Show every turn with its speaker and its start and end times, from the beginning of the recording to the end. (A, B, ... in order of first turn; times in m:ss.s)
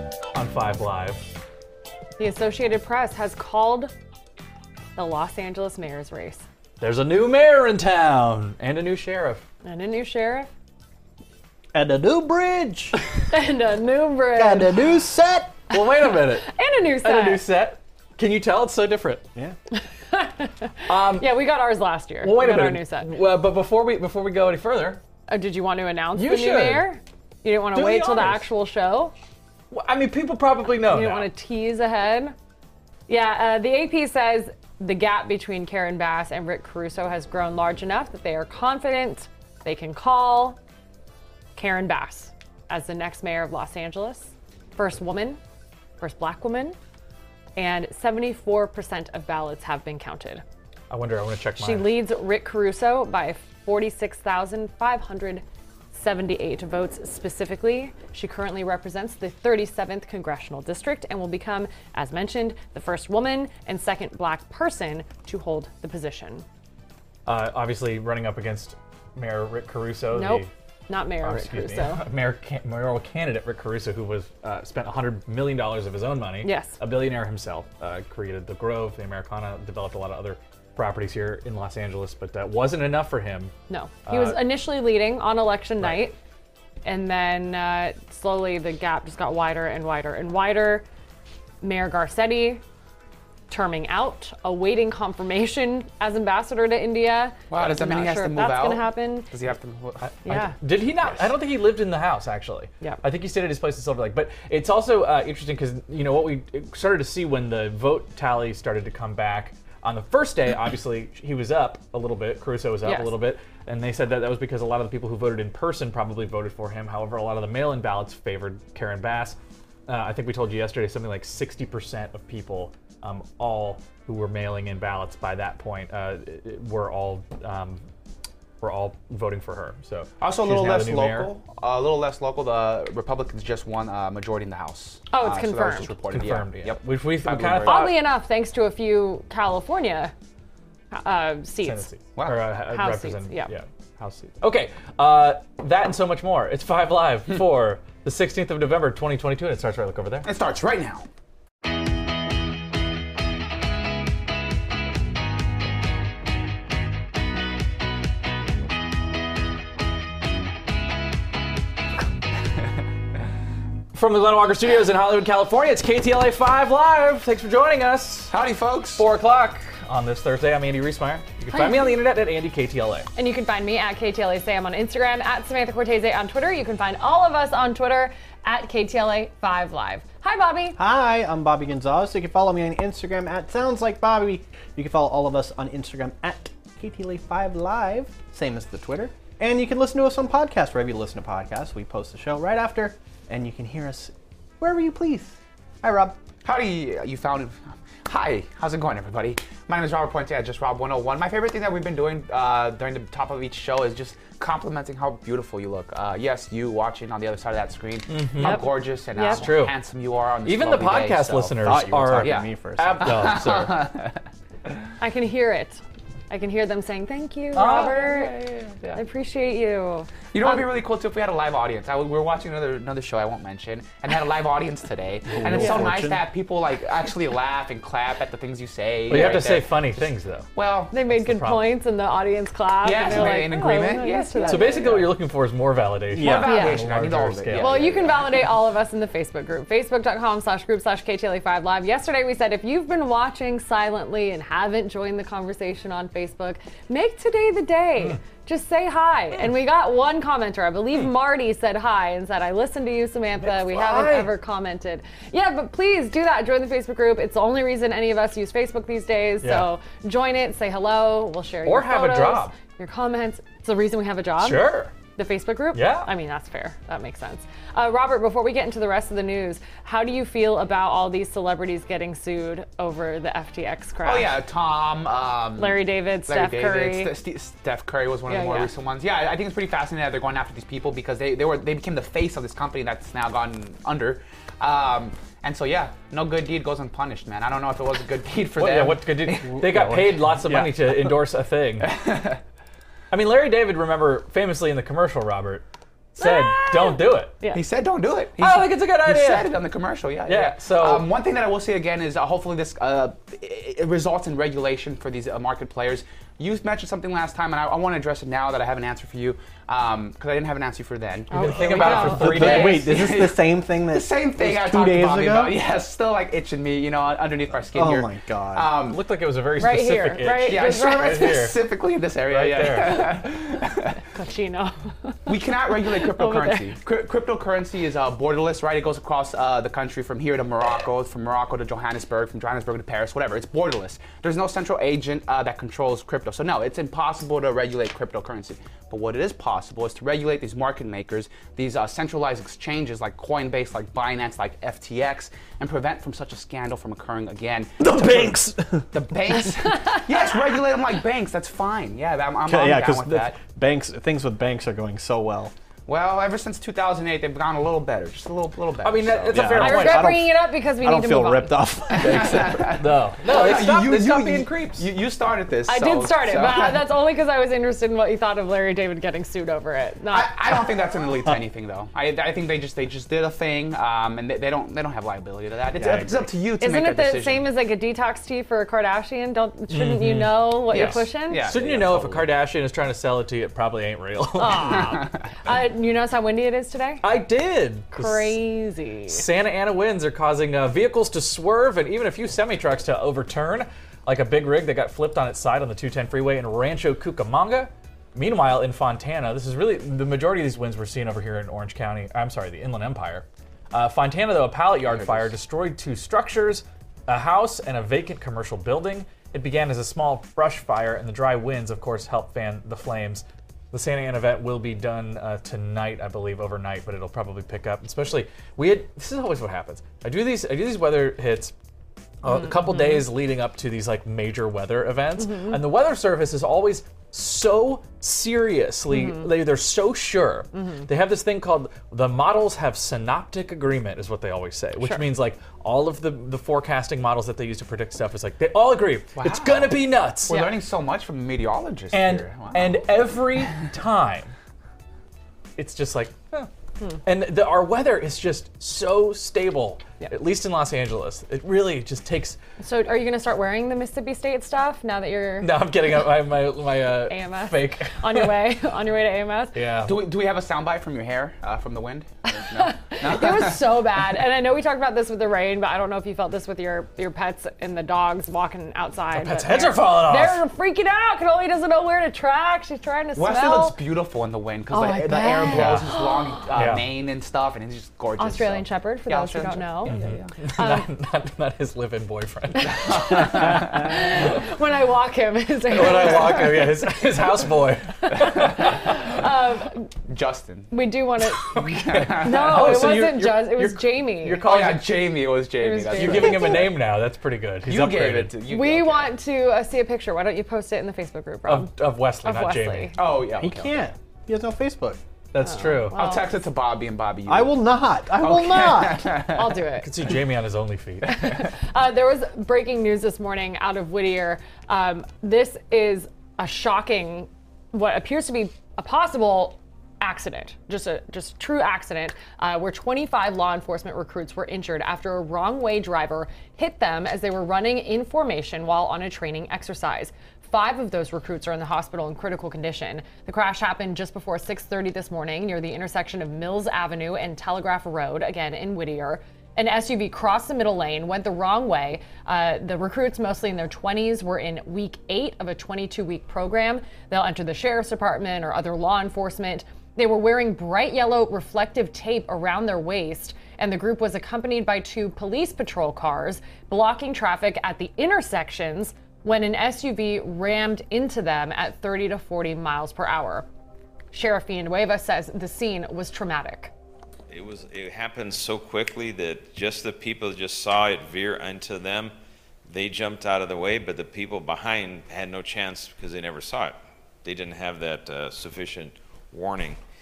0:00.3-0:01.3 A
0:02.2-0:03.9 B
0:05.0-0:06.4 B
0:06.8-0:09.4 A
0:09.6-0:10.5 B
0:11.7-0:13.0 C
0:13.3-0:14.9 B
0:14.3-0:15.6 C
0:15.7-0:16.5 A
0:16.4-0:17.4 B
0:17.0-0:19.3 A
0:19.7-0:23.1 B
0:20.9-0:21.3 A
0:22.2-0:25.0 A
0:25.3-0:29.1 B
0:26.2-0:26.9 A
0:27.7-0:28.4 A
0:29.7-0:31.3 A
0:30.8-0:32.4 B
0:33.1-0:40.6 B
0:41.6-0:45.4 B
0:46.0-0:46.8 B
0:47.6-0:50.4 B
0:50.9-0:52.0 A
0:51.6-1:06.4 B
1:07.3-1:10.5 A
1:10.1-1:12.0 B
1:11.2-1:23.5 A
1:16.4-1:16.8 B
1:23.7-1:26.2 B
1:24.1-1:24.4 A
1:25.8-1:26.1 A
1:26.8-1:30.8 B
1:31.6-1:32.6 B
1:33.5-1:39.3 B
1:37.5-1:40.0 D
1:40.0-2:07.8 A
1:40.2-1:40.6 B
1:52.8-1:53.1 B
2:08.6-2:11.3 A
2:10.2-2:17.9 D
2:15.1-2:15.9 B
2:16.1-2:17.9 A
2:17.7-2:20.1 B
2:20.9-2:21.9 B
2:21.6-2:30.3 A
2:22.7-2:23.5 B
2:30.2-2:31.1 D
2:43.9-2:48.3 A
2:48.3-2:49.0 D
2:49.0-2:53.1 A
2:51.5-2:51.9 B
2:53.2-3:00.8 B
3:00.8-3:16.2 C
3:16.4-3:34.2 D
3:28.1-3:28.7 A
3:28.4-3:29.4 B
3:29.3-3:29.7 A
3:30.4-3:33.8 A
3:31.6-3:33.4 C
3:35.0-3:38.4 B
3:37.5-3:38.0 A
3:37.6-3:39.0 D
3:38.9-3:40.6 B
3:40.3-3:50.9 D
3:45.3-3:46.2 C
3:45.6-3:46.0 B
3:49.1-3:50.5 A
3:50.9-3:55.1 B
3:51.0-3:51.6 A
3:52.8-3:55.2 D
3:54.5-3:57.8 A
3:56.1-3:56.5 C
3:56.2-3:58.5 D
3:56.4-3:56.8 B
3:57.6-4:34.3 B
4:13.4-4:14.3 A
4:19.4-4:19.7 A
4:21.6-4:22.5 A
4:24.4-4:24.9 A
4:25.7-4:26.1 A
4:34.0-4:50.0 D
4:35.6-4:37.1 B
4:38.3-4:38.7 B
4:48.6-4:52.0 A
4:49.5-4:51.1 C
4:51.8-4:52.4 D
4:53.1-4:55.6 A
4:56.2-4:57.3 A
4:56.2-4:57.6 B
4:57.5-5:19.0 D
4:58.4-4:59.6 A
5:00.2-5:01.1 A
5:11.3-5:12.8 B
5:11.3-5:12.9 A
5:11.8-5:15.6 C
5:17.7-5:18.8 C
5:18.8-5:21.6 A
5:19.6-5:21.3 B
5:20.4-5:24.0 D
5:22.3-5:23.3 A
5:24.1-5:26.8 B
5:25.3-5:48.3 D
5:47.8-5:49.0 C
5:48.9-5:53.4 D
5:52.4-5:55.5 C
5:55.9-5:59.6 D
5:58.8-6:00.2 A
5:59.3-6:02.8 C
5:59.6-6:01.6 B
6:01.9-6:06.8 D
6:02.0-6:04.9 A
6:05.7-6:10.3 B
6:10.1-6:17.4 D
6:15.8-6:16.1 C
6:16.6-6:21.4 B
6:19.7-6:24.9 A
6:20.7-6:22.3 D
6:24.4-6:27.0 B
6:27.0-6:28.4 A
6:27.9-6:29.2 B
6:29.1-7:01.5 A
7:02.2-7:20.4 A
7:02.3-7:03.0 B
7:05.2-7:05.6 B
7:08.9-7:09.3 B
7:10.5-7:10.8 B
7:19.1-7:22.8 D
7:20.3-7:20.5 B
7:21.9-7:24.3 A
7:25.6-7:26.5 A
7:27.0-7:32.4 A
7:32.6-7:35.6 B
7:35.4-7:38.3 A
7:37.0-7:39.6 B
7:39.5-7:39.9 A
7:39.8-7:43.6 D
7:42.3-7:53.8 B
7:49.1-7:50.4 A
7:53.2-8:00.4 D
7:54.7-7:56.4 B
7:55.5-7:55.9 A
7:56.6-7:56.8 A
7:58.2-8:00.0 B
7:59.8-8:03.9 A
8:00.5-8:00.9 B
8:02.5-8:06.9 B
8:02.8-8:03.9 D
8:05.7-8:08.9 A
8:08.0-8:09.9 B
8:08.2-8:08.6 D
8:10.1-8:10.7 D
8:10.7-8:11.6 B
8:11.4-8:14.8 A
8:11.5-8:13.0 D
8:12.2-8:14.5 B
8:14.4-8:16.7 D
8:15.6-8:16.6 B
8:15.9-8:18.4 A
8:17.6-8:19.1 D
8:18.5-8:23.0 B
8:21.5-8:22.9 A
8:23.0-8:23.9 D
8:23.4-8:25.0 C
8:25.3-8:26.0 A
8:25.4-8:26.3 B
8:25.9-8:29.4 D
8:27.3-8:29.2 C
8:29.3-8:29.9 B
8:29.8-8:31.4 A
8:31.1-9:23.5 B
9:24.1-9:26.7 B
9:27.3-9:32.1 E
9:32.7-9:39.8 E